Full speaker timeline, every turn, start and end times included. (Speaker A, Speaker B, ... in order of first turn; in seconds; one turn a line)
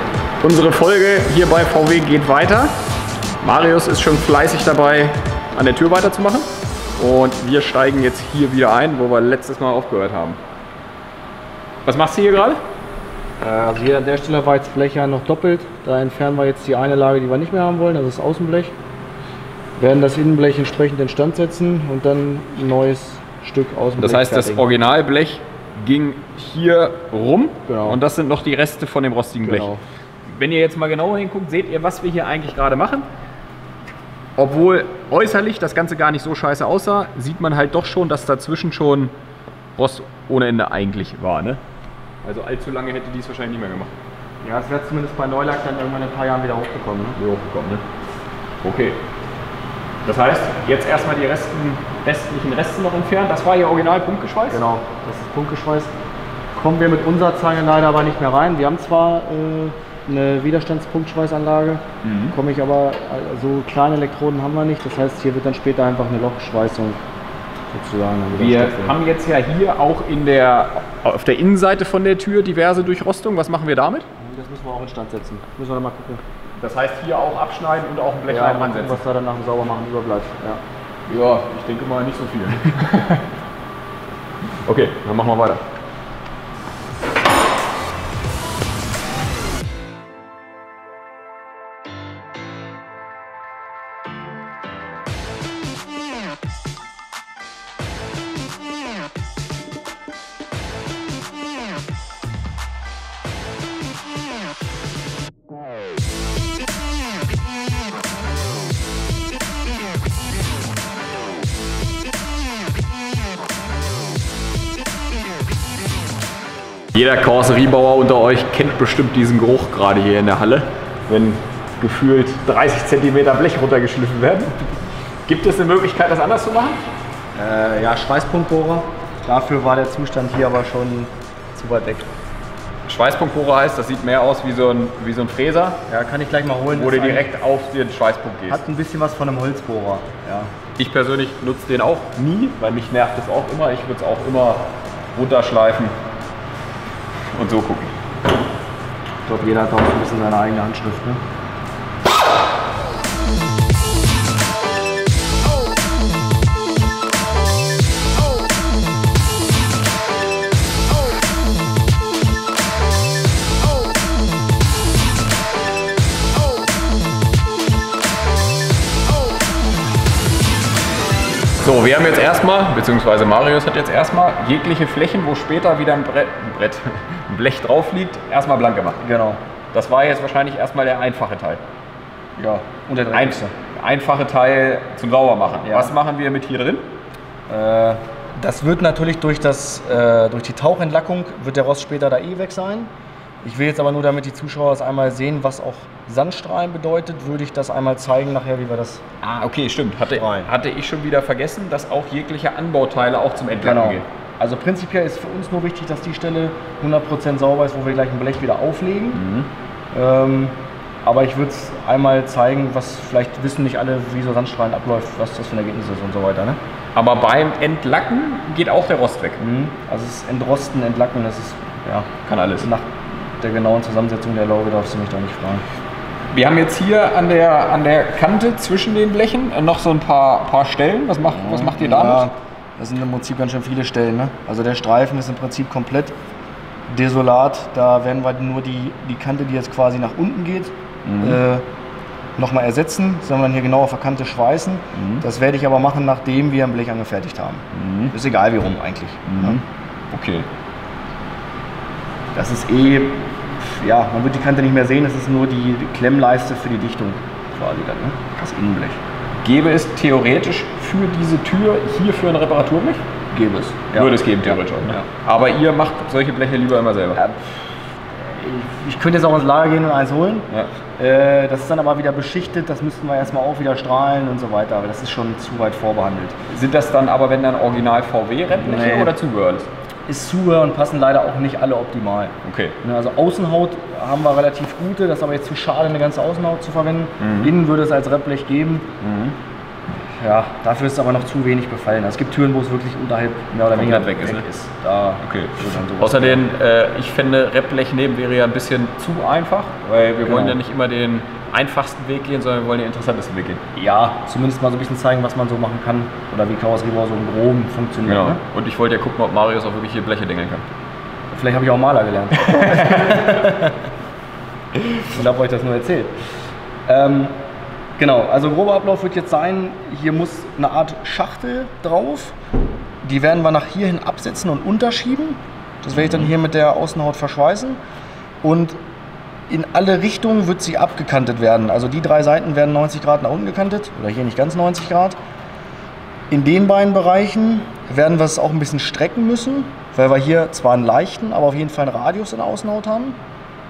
Speaker A: 0.4-2.8
Speaker A: 3.4-10.4
Speaker A: 11.8-12.6
Speaker B: 13.4-18.7
Speaker B: 19.8-24.7
Speaker A: 24.0-29.7
Speaker B: 27.7-28.0
Speaker B: 29.4-29.8
Speaker A: 30.2-33.1
Speaker A: 34.4-39.1
Speaker A: 39.8-41.6
Speaker A: 42.2-43.9
Speaker B: 44.4-47.2
Speaker A: 47.2-47.8
Speaker A: 48.6-49.0
Speaker A: 50.0-54.6
Speaker B: 54.5-55.9
Speaker B: 56.5-67.0
Speaker A: 62.0-62.4
Speaker B: 67.7-69.0
Speaker A: 68.3-74.1
Speaker B: 74.2-76.2
Speaker A: 76.6-79.0
Speaker B: 78.3-80.6
Speaker A: 81.1-83.3
Speaker A: 84.7-85.6
Speaker A: 116.9-124.6
Speaker A: 125.3-126.8
Speaker B: 127.4-132.1
Speaker A: 132.9-135.8
Speaker B: 135.9-137.3
Speaker A: 136.7-138.6
Speaker B: 138.5-140.5
Speaker A: 140.8-145.9
Speaker A: 147.3-147.9
Speaker B: 149.3-151.2
Speaker A: 171.6-179.0
Speaker B: 179.0-179.4
Speaker A: 179.7-181.6
Speaker B: 182.4-183.5
Speaker A: 183.1-186.9
Speaker B: 185.6-185.9
Speaker B: 187.5-192.9
Speaker B: 193.4-199.0
Speaker A: 199.2-204.1
Speaker B: 200.1-200.5
Speaker B: 203.6-209.2
Speaker A: 209.1-209.5
Speaker B: 209.9-216.6
Speaker A: 216.9-219.4
Speaker B: 219.4-225.6
Speaker A: 222.3-222.7
Speaker A: 226.3-232.3
Speaker B: 231.3-236.2
Speaker B: 236.9-241.6
Speaker A: 241.1-241.4
Speaker B: 242.4-249.6
Speaker A: 244.9-245.2
Speaker A: 247.7-248.1
Speaker A: 249.3-250.5
Speaker B: 252.3-259.0
Speaker A: 259.4-263.1
Speaker B: 263.3-265.1
Speaker A: 263.9-267.2
Speaker B: 267.1-267.6
Speaker B: 268.1-276.4
Speaker A: 276.5-279.7
Speaker B: 278.6-279.1
Speaker B: 280.1-288.9
Speaker A: 282.4-282.8
Speaker A: 287.2-287.5
Speaker A: 289.0-289.4
Speaker B: 290.2-296.4
Speaker A: 293.7-294.4
Speaker A: 295.2-303.6
Speaker B: 300.2-300.6
Speaker B: 303.7-308.4
Speaker A: 308.1-310.7
Speaker B: 311.3-313.8
Speaker A: 312.4-313.4
Speaker B: 315.0-316.1
Speaker B: 316.9-317.4
Speaker B: 318.0-322.4
Speaker B: 323.0-327.8
Speaker A: 326.0-326.3
Speaker B: 328.4-328.8
Speaker B: 329.5-335.2
Speaker B: 336.3-343.2